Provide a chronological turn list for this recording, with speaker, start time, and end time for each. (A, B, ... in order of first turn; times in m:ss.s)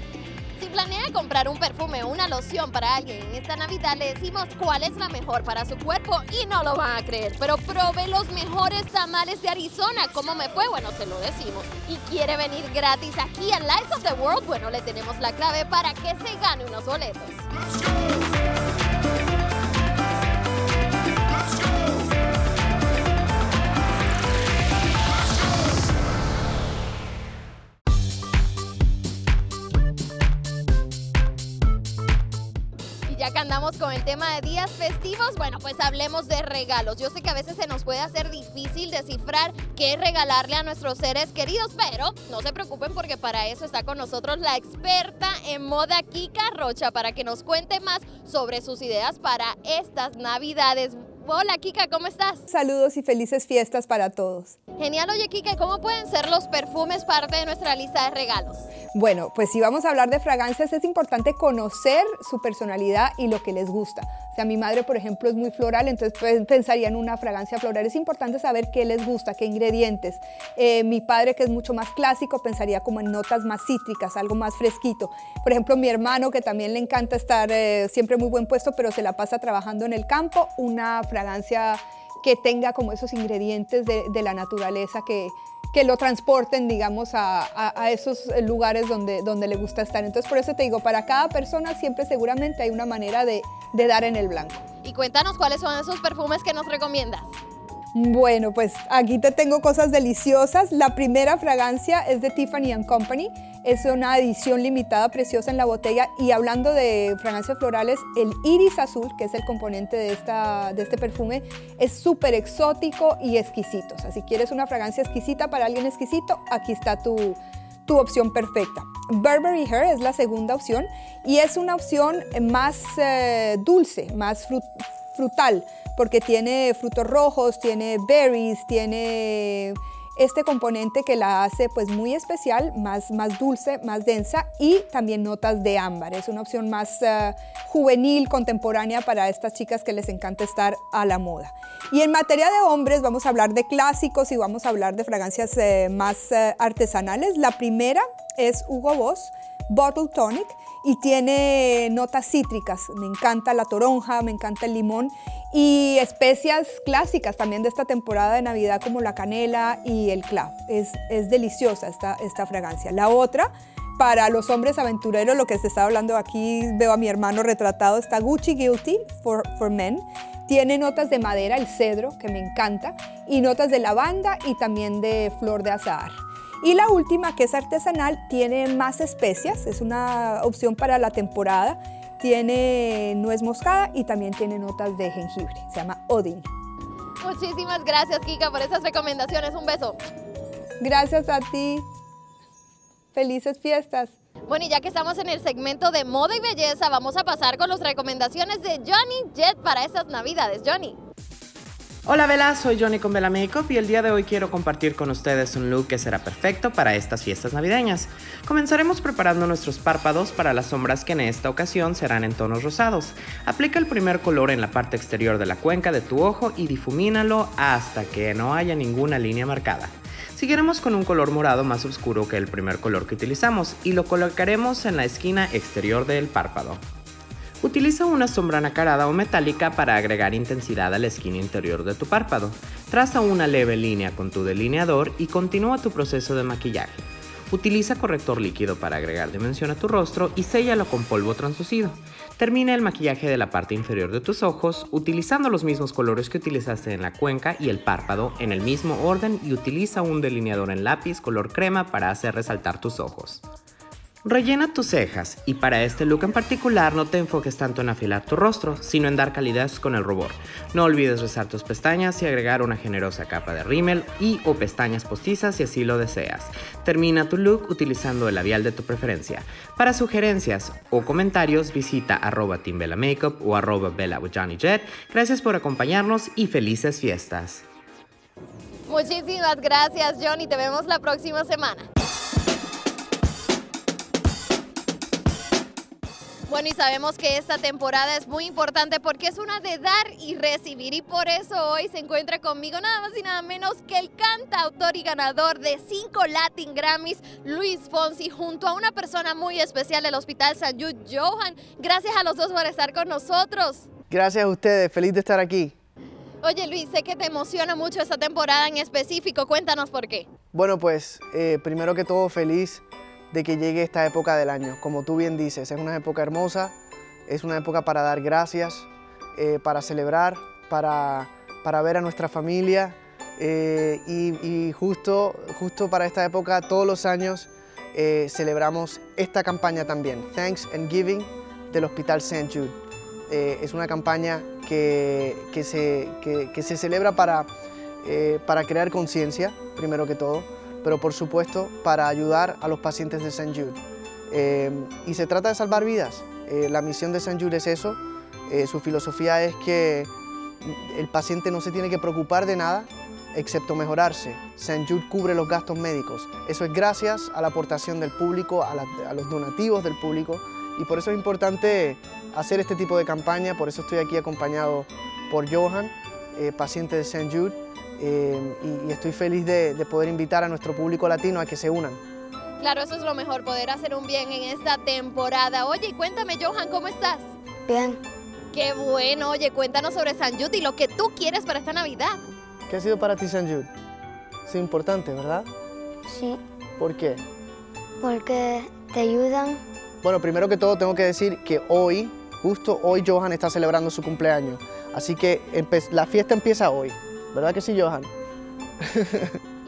0:00.6-0:17.5 A
0:33.1-0:52.5 A
0:52.5-0:54.6 B
0:54.8-0:58.7 A
0:58.9-1:34.6 B
1:34.8-1:37.3 A
1:38.0-3:06.5 B
3:07.2-3:10.0 A
3:10.8-3:11.9 B
3:13.1-3:14.2 B
3:14.5-3:21.0 A
3:22.1-3:46.8 C
3:47.6-4:13.4 C
4:14.2-4:37.6 C
4:38.9-4:41.9 A
4:46.5-5:03.9 A
5:04.1-5:05.7 D
5:06.4-5:10.3 A
5:10.5-5:16.8 D
5:17.3-5:32.8 D
5:33.3-5:37.5 D
5:38.0-6:12.0 D
6:12.6-6:17.3 A
6:17.7-6:18.0 E
6:18.5-6:22.2 A
6:22.7-6:23.7 D
6:24.5-6:25.5 D
6:26.1-6:26.4 E
6:26.8-6:27.2 D
6:28.0-6:29.6 E
6:30.0-6:38.1 D
6:38.8-6:39.4 D